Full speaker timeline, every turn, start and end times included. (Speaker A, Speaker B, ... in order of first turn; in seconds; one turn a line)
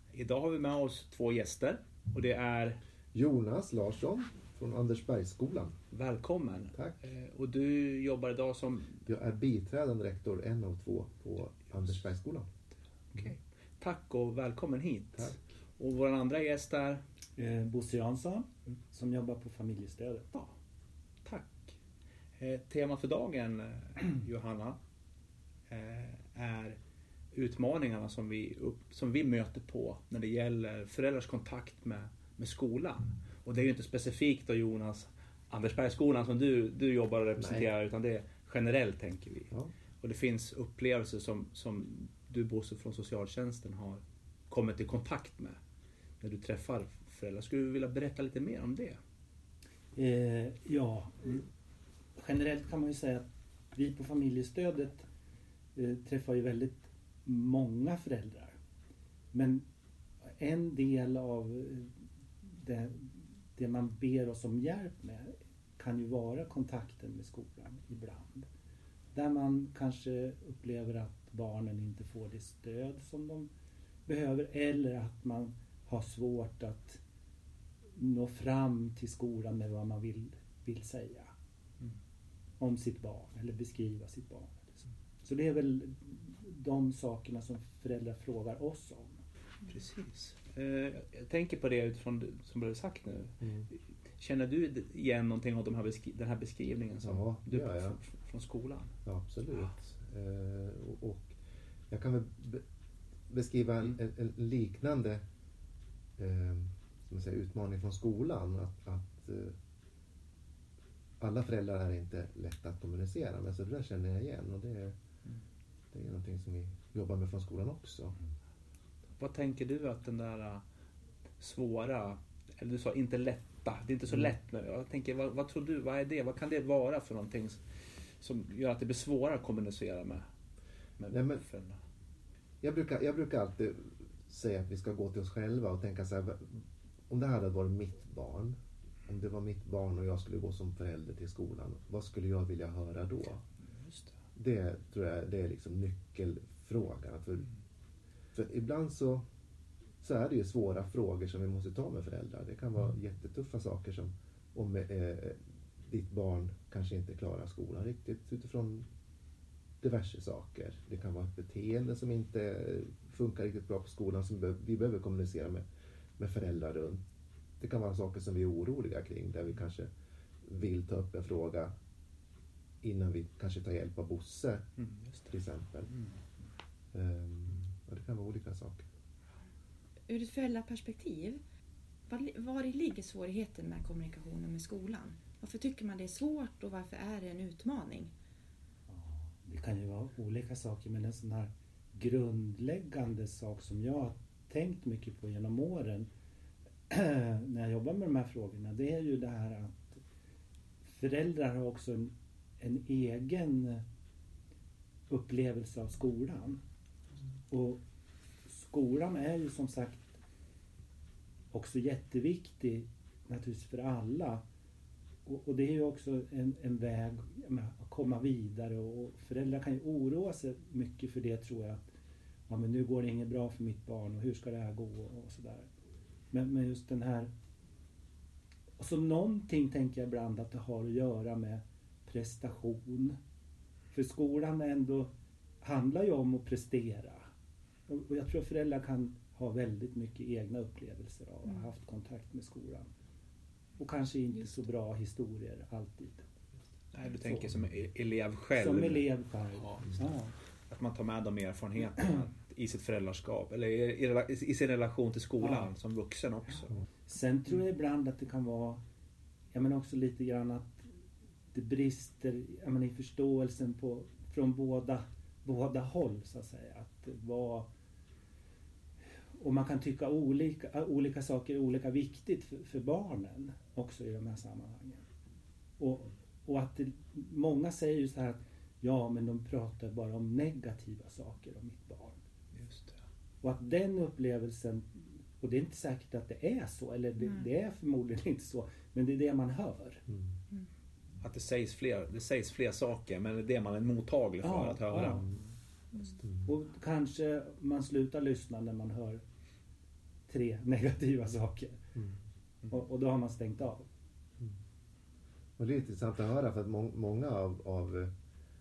Speaker A: 0.1-2.8
Speaker B: 3.1-5.7
Speaker A: 5.9-9.0
Speaker B: 6.7-7.0
Speaker B: 9.1-12.5
Speaker A: 13.1-17.0
Speaker B: 15.2-15.4
Speaker C: 17.4-20.3
Speaker A: 21.2-21.7
Speaker A: 22.4-24.8
Speaker A: 25.7-26.8
Speaker A: 27.3-45.6
Speaker B: 37.4-37.7
Speaker A: 46.2-49.0
Speaker C: 50.0-51.5
Speaker C: 52.2-55.0
Speaker C: 55.7-58.5
Speaker C: 59.3-59.6
Speaker C: 60.4-61.9
Speaker C: 62.5-68.5
Speaker C: 69.1-73.5
Speaker C: 74.1-77.0
Speaker C: 78.0-81.3
Speaker C: 82.6-89.2
Speaker A: 89.6-98.9
Speaker B: 93.4-93.7
Speaker B: 97.0-98.0
Speaker B: 99.0-101.3
Speaker B: 101.9-102.6
Speaker B: 103.3-105.2
Speaker B: 106.2-109.5
Speaker B: 111.2-114.9
Speaker B: 115.9-118.2
Speaker A: 119.2-120.6
Speaker A: 121.4-127.6
Speaker A: 128.2-130.3
Speaker A: 131.0-131.8
Speaker B: 131.1-131.4
Speaker B: 132.6-143.4
Speaker A: 143.6-144.1
Speaker B: 144.3-147.5
Speaker B: 148.3-149.2
Speaker B: 150.0-158.8
Speaker B: 159.8-165.6
Speaker B: 166.2-167.0
Speaker B: 167.6-169.9
Speaker B: 170.4-171.7
Speaker B: 172.8-174.7
Speaker A: 174.8-175.3
Speaker B: 175.3-175.9
Speaker B: 176.9-178.8
Speaker D: 180.1-181.4
Speaker D: 182.1-188.1
Speaker C: 188.9-196.1
Speaker C: 196.9-200.0
Speaker C: 200.8-203.8
Speaker C: 205.1-206.6
Speaker C: 207.5-207.8
Speaker C: 208.5-210.2
Speaker C: 211.5-214.4
Speaker C: 215.2-221.8
Speaker C: 222.5-225.7
Speaker C: 226.3-227.3
Speaker C: 228.8-233.2
Speaker C: 233.9-235.1
Speaker C: 235.6-237.2
Speaker C: 237.9-242.9
Speaker C: 243.8-246.2
Speaker A: 246.9-249.9
Speaker C: 248.6-250.3
Speaker A: 250.7-256.8
Speaker C: 255.4-255.7
Speaker C: 257.1-258.8
Speaker C: 259.5-260.9
Speaker C: 261.5-267.7
Speaker C: 269.4-275.0
Speaker C: 275.8-282.2
Speaker A: 282.5-283.0
Speaker C: 283.4-290.0
Speaker A: 291.2-295.3
Speaker C: 294.4-295.3
Speaker C: 296.4-299.2
Speaker C: 300.3-301.9
Speaker C: 302.7-303.9
Speaker B: 305.6-308.1